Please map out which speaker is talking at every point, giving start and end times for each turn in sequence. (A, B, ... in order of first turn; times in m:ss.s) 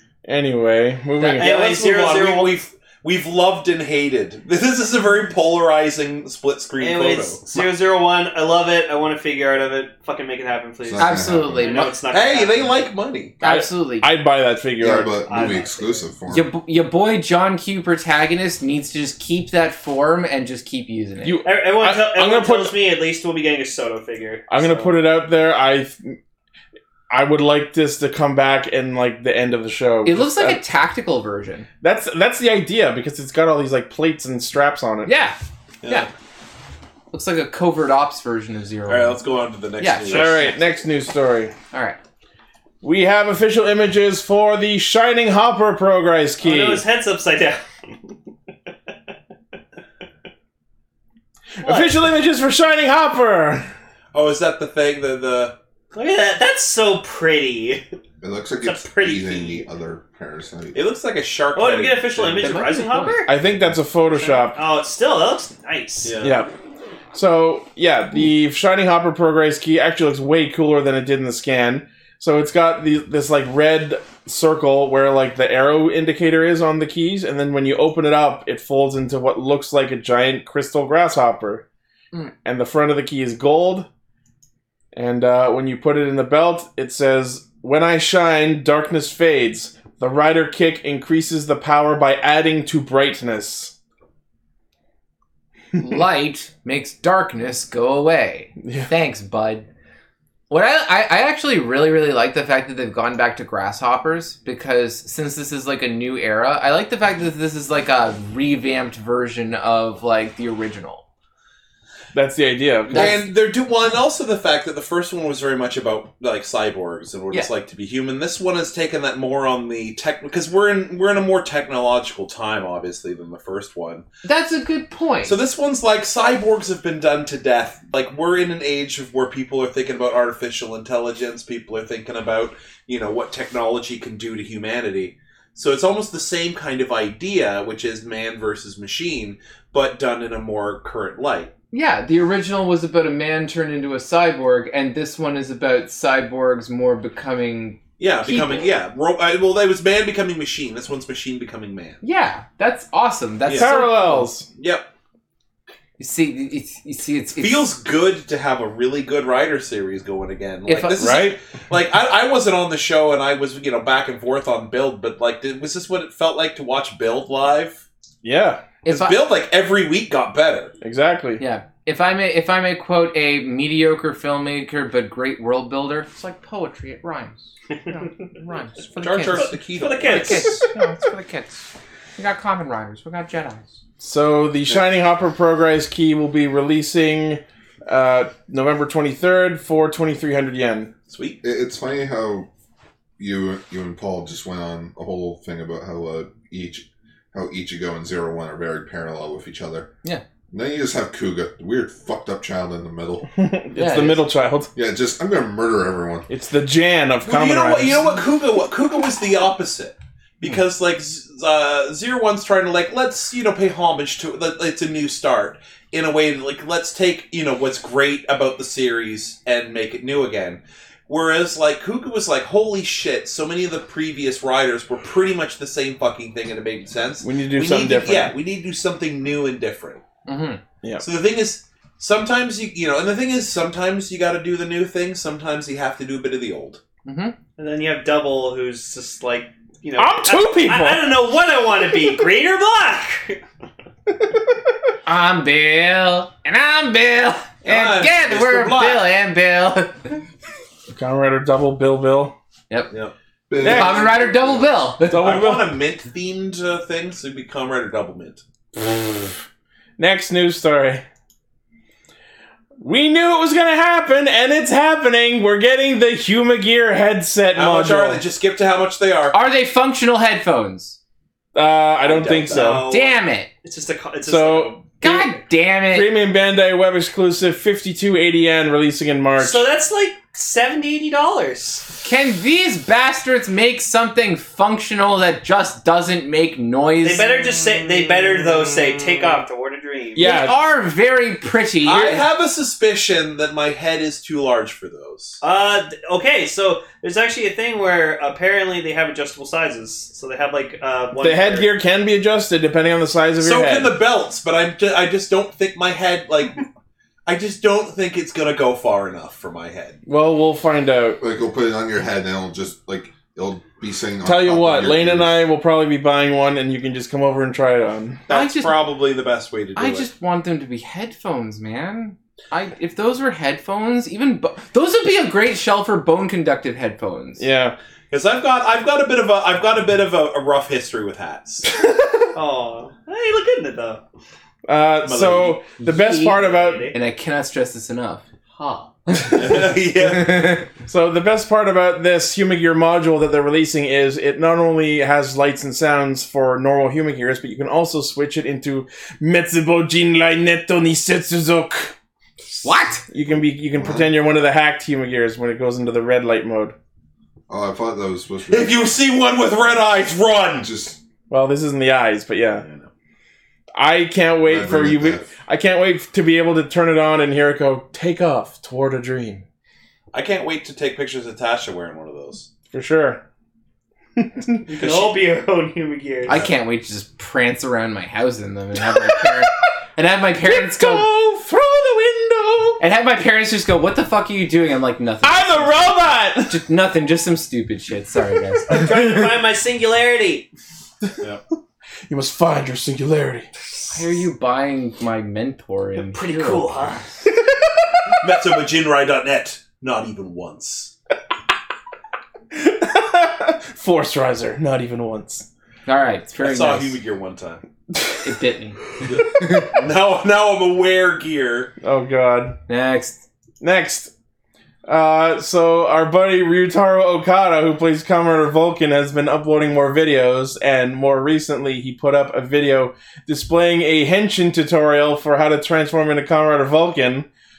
0:00.2-0:01.5 A
0:01.2-0:01.5 B
0:01.4-0:02.6 C
0:01.4-0:07.4 D
0:06.8-0:12.8 C
0:10.8-0:11.7 E
0:11.0-0:11.9 B
0:12.1-0:13.4 D
0:13.4-0:15.4 A
0:13.4-0:14.1 B
0:14.8-0:16.5 E
0:15.0-0:16.1 C
0:16.3-0:21.4 B
0:21.2-0:22.7 A
0:21.4-0:24.9 C
0:24.5-0:26.2 A
0:27.1-0:30.6 A
0:30.0-0:31.7 B
0:31.8-0:35.1 A
0:35.0-0:36.1 B
0:35.8-0:36.1 D
0:37.1-0:39.2 B
0:38.9-0:40.5 D
0:39.8-0:40.6 B
0:40.0-0:41.5 A
0:41.7-0:42.0 B
0:42.8-0:46.8 A
0:46.4-0:47.6 C
0:51.6-0:53.7 A
0:51.6-0:52.0 C
0:54.1-0:55.6 D
0:55.9-0:57.8 C
0:58.2-1:00.8 E
0:58.6-0:59.6 C
1:00.7-1:02.6 D
1:01.5-1:03.4 C
1:02.4-1:03.2 B
1:03.3-1:04.6 A
1:04.1-1:06.2 C
1:06.0-1:06.4 D
1:06.2-1:06.5 A
1:07.1-1:21.6 A
1:22.4-1:23.9 A
1:24.9-1:33.7 A
1:35.8-1:39.6 B
1:38.6-1:38.9 A
1:40.5-1:51.0 B
1:52.1-1:53.2 A
1:52.9-1:53.3 B
1:52.9-2:04.0 D
2:04.2-2:05.4 B
2:05.2-2:21.5 D
2:21.7-2:28.7 B
2:28.0-2:32.0 D
2:32.0-2:34.3 B
2:33.5-2:34.5 A
2:34.6-2:34.9 D
2:36.0-2:37.7 B
2:37.4-2:47.8 D
2:40.7-2:41.3 B
2:48.2-2:48.6 A
2:48.8-2:49.2 B
2:48.8-2:50.7 D
2:50.8-2:51.4 A
2:51.4-3:01.6 B
2:59.0-3:00.6 D
2:59.3-3:00.7 C
3:02.2-3:03.7 B
3:04.0-3:10.9 A
3:11.1-3:11.4 D
3:11.4-3:12.5 E
3:13.2-3:19.9 E
3:20.5-3:23.3 E
3:23.3-3:24.7 A
3:23.7-3:24.2 B
3:24.7-3:26.3 E
3:26.3-3:28.1 A
3:27.2-3:50.0 D
3:47.2-3:48.3 A
3:50.2-3:50.6 B
3:51.0-3:56.8 D
3:57.0-3:57.4 B
3:57.6-4:03.4 C
4:00.0-4:01.1 A
4:05.0-4:10.2 B
4:07.6-4:09.1 D
4:10.9-4:12.3 A
4:13.5-4:14.9 E
4:13.6-4:14.2 A
4:13.6-4:15.3 B
4:15.0-4:15.7 A
4:15.2-4:18.4 D
4:20.0-4:21.0 A
4:22.8-4:28.2 A
4:27.5-4:29.4 D
4:29.3-4:31.0 B
4:31.5-4:32.9 A
4:32.0-4:32.8 D
4:32.5-4:34.9 C
4:32.8-4:33.5 B
4:34.2-4:35.3 A
4:35.0-4:36.1 B
4:35.8-4:39.6 A
4:39.4-4:41.9 C
4:42.0-4:47.3 B
4:47.0-4:50.2 C
4:50.1-4:50.6 A
4:50.2-4:52.2 B
4:51.8-4:55.4 D
4:55.4-5:01.7 C
5:01.2-5:04.0 A
5:03.4-5:06.6 D
5:07.2-5:10.0 D
5:10.1-5:11.2 A
5:11.2-5:15.4 E
5:14.2-5:18.2 A
5:18.3-5:20.1 D
5:18.3-5:18.8 B
5:19.8-5:27.4 B
5:27.4-5:27.8 A
5:28.1-5:31.7 D
5:32.3-5:34.0 C
5:34.6-5:36.9 A
5:35.0-5:35.6 D
5:35.8-5:36.4 B
5:36.2-5:36.9 C
5:36.9-5:39.6 B
5:39.3-5:40.6 D
5:40.7-5:51.9 A
5:52.6-5:53.0 B
5:52.6-5:56.7 A
5:53.7-5:54.1 E
5:57.5-5:58.9 E
5:58.5-6:00.7 D
6:00.6-6:01.0 E
6:01.3-6:02.6 A
6:03.8-6:09.4 A
6:04.4-6:05.3 E
6:10.1-6:12.5 D
6:12.7-6:13.2 A
6:14.2-6:14.6 A
6:14.7-6:16.4 C
6:14.8-6:15.2 D
6:16.3-6:21.1 B
6:18.9-6:19.5 A
6:20.4-6:22.8 A
6:22.8-6:25.9 B
6:25.2-6:26.6 A
6:26.5-6:29.2 B
6:28.7-6:30.5 C
6:32.1-6:33.5 A
6:33.9-6:36.9 B
6:36.0-6:37.1 C
6:38.2-6:40.9 D
6:42.5-6:45.4 A
6:45.8-6:47.0 B
6:46.4-6:47.6 D
6:47.9-6:48.3 A
6:48.2-6:49.7 B
6:49.0-6:49.6 A
6:49.1-6:51.7 D
6:51.8-6:52.6 A
6:52.7-6:53.2 B
6:53.6-6:54.1 A
6:54.9-7:07.3 A